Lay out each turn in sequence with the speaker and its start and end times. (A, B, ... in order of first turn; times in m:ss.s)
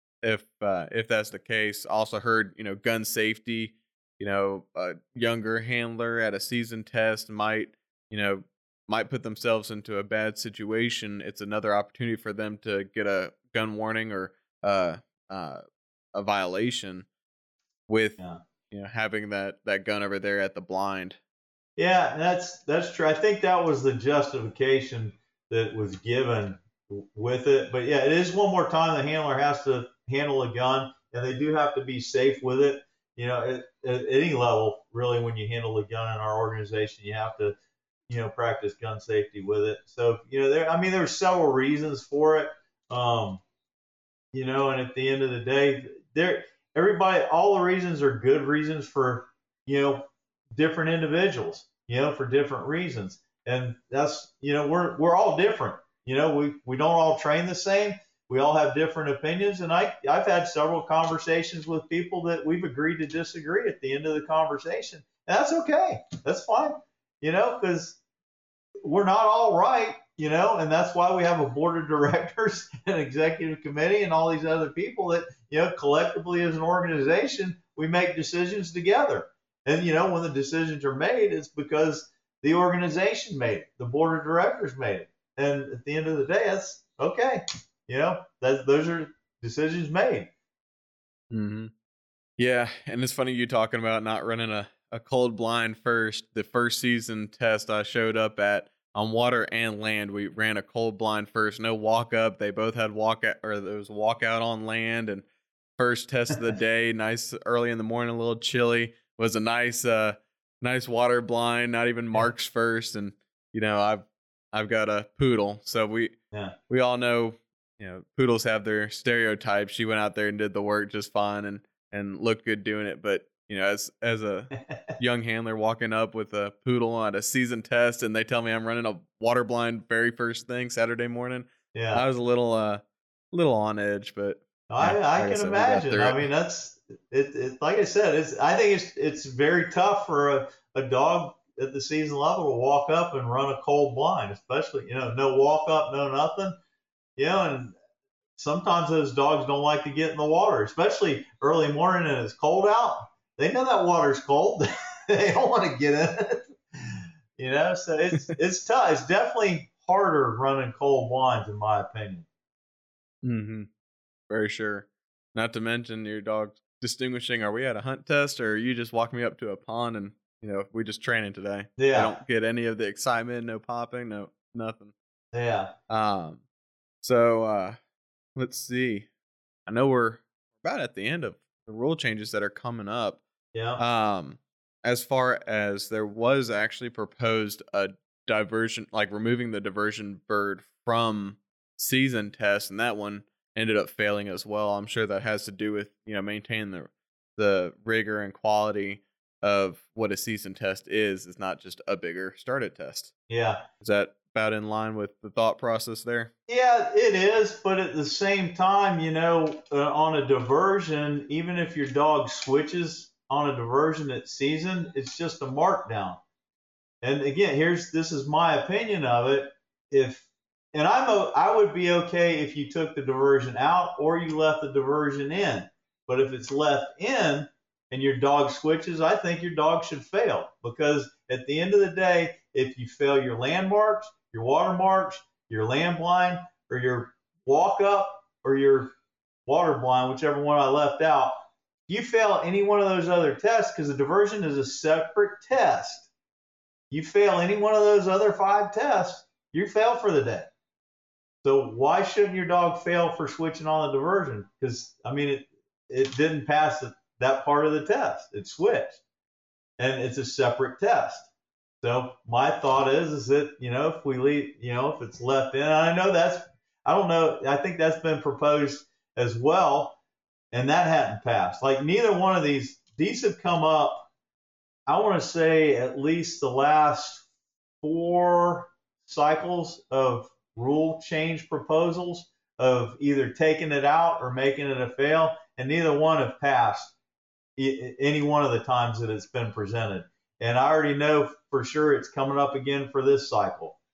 0:00.2-0:15.6 A
0:16.1-0:17.1 A
0:17.9-0:18.2 A
0:18.7-0:21.2 A
0:21.8-0:37.6 B
0:38.1-0:43.4 B
0:44.3-1:08.0 B
1:08.8-1:30.3 B
1:31.3-1:31.7 A
1:32.4-1:45.2 A
1:45.8-1:56.1 A
1:56.7-2:16.3 A
2:04.5-2:05.0 B
2:11.7-2:12.0 B
2:14.7-2:26.6 B
2:27.2-2:27.7 B
2:28.4-2:42.2 B
2:43.2-2:43.7 A
2:44.3-2:54.9 A
2:51.8-2:52.2 B
2:55.3-2:55.7 B
2:55.9-2:56.4 A
2:57.0-2:57.8 A
2:58.4-2:59.1 A
2:59.7-3:03.2 A
3:03.5-3:03.8 B
3:03.8-3:23.1 A
3:23.3-3:23.6 B
3:23.8-3:26.3 A
3:26.5-3:36.2 B
3:37.0-3:58.9 B
3:59.4-4:06.1 B
4:06.9-4:10.5 B
4:11.4-4:19.0 B
4:19.8-4:21.3 B
4:21.8-4:30.0 B
4:30.5-4:34.1 B
4:34.9-4:37.2 B
4:37.8-4:46.9 B
4:47.6-4:53.8 B